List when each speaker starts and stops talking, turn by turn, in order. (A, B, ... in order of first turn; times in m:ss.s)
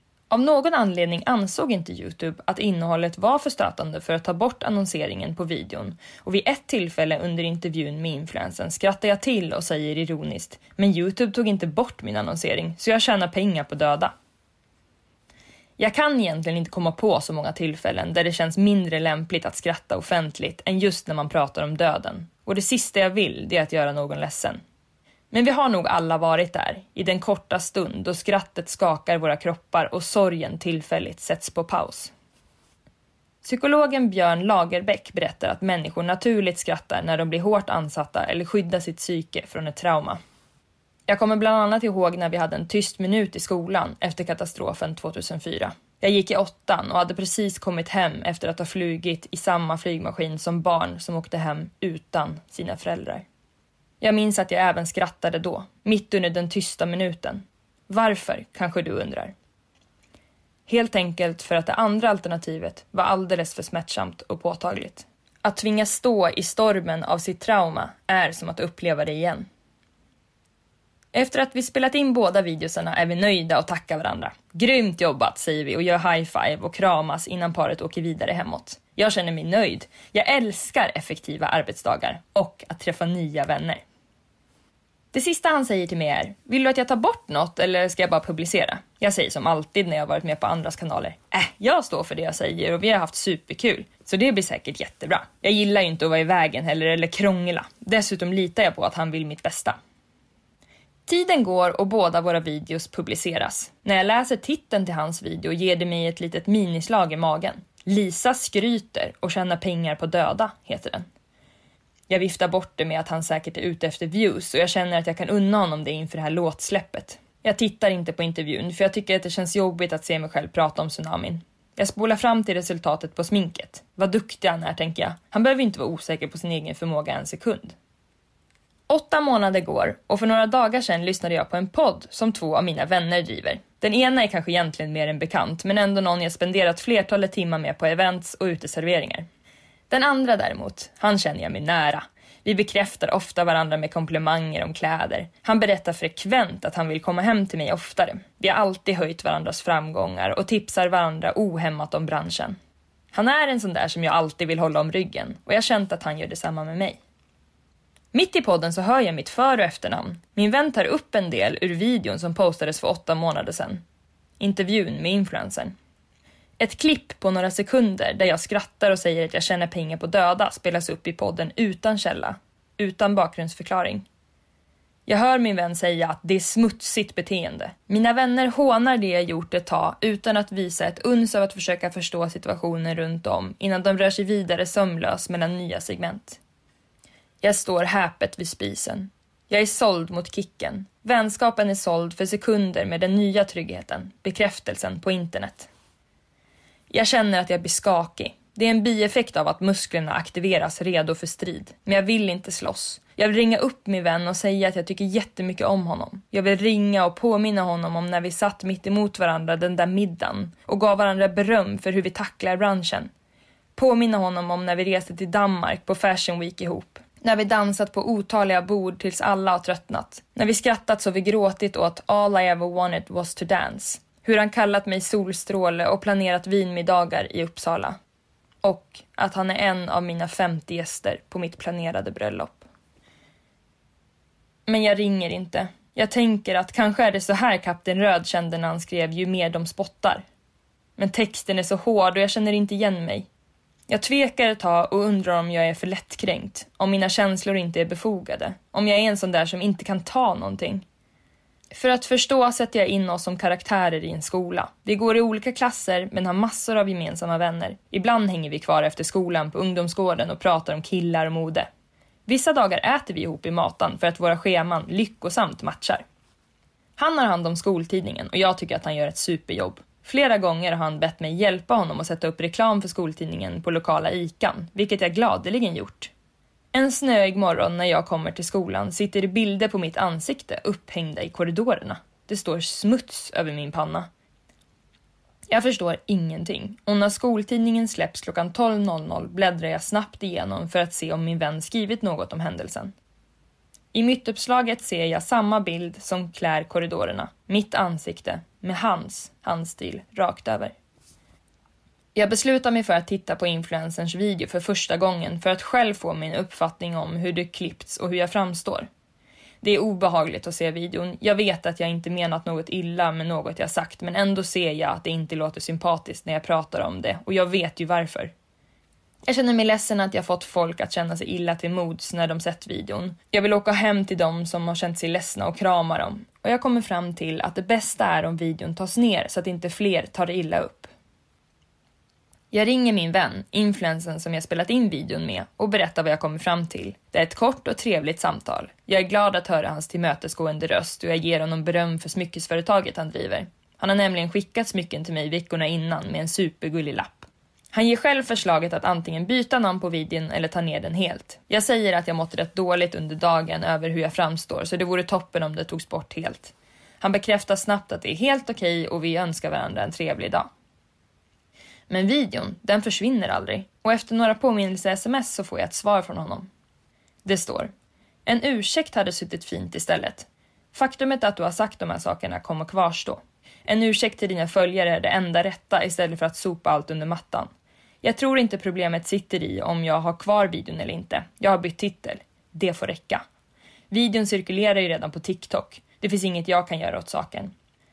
0:00.3-0:14.1 A
0:15.8-0:24.6 A
0:25.3-0:32.1 A
0:33.4-0:40.2 A
0:41.1-0:53.2 A
0:54.0-0:59.3 A
1:00.7-1:09.5 A
1:11.1-1:23.8 A
1:25.1-1:39.8 A
1:41.1-1:51.1 A
1:52.1-2:07.8 A
2:08.9-2:19.3 A
2:19.9-2:32.6 A
2:33.1-2:37.0 A
2:38.1-2:43.8 A
2:44.4-2:45.8 A
2:46.6-2:54.0 A
2:55.1-3:06.4 A
3:07.4-3:15.7 A
3:16.9-3:33.1 A
3:33.8-3:48.0 A
3:48.6-3:52.6 A
3:54.7-4:00.2 A
4:01.0-4:03.3 A
4:03.9-4:10.8 A
4:11.7-4:21.7 A
4:22.3-4:26.0 A
4:27.0-4:36.1 A
4:36.7-4:44.1 A
4:45.5-4:52.9 A
4:53.9-5:00.7 A
5:02.1-5:08.9 A
5:09.6-5:18.3 A
5:19.2-5:30.9 A
5:32.5-6:00.5 A
6:01.9-6:06.5 A
6:07.2-6:07.7 A
6:08.2-6:17.5 A
6:18.0-6:23.2 A
6:23.9-6:27.5 A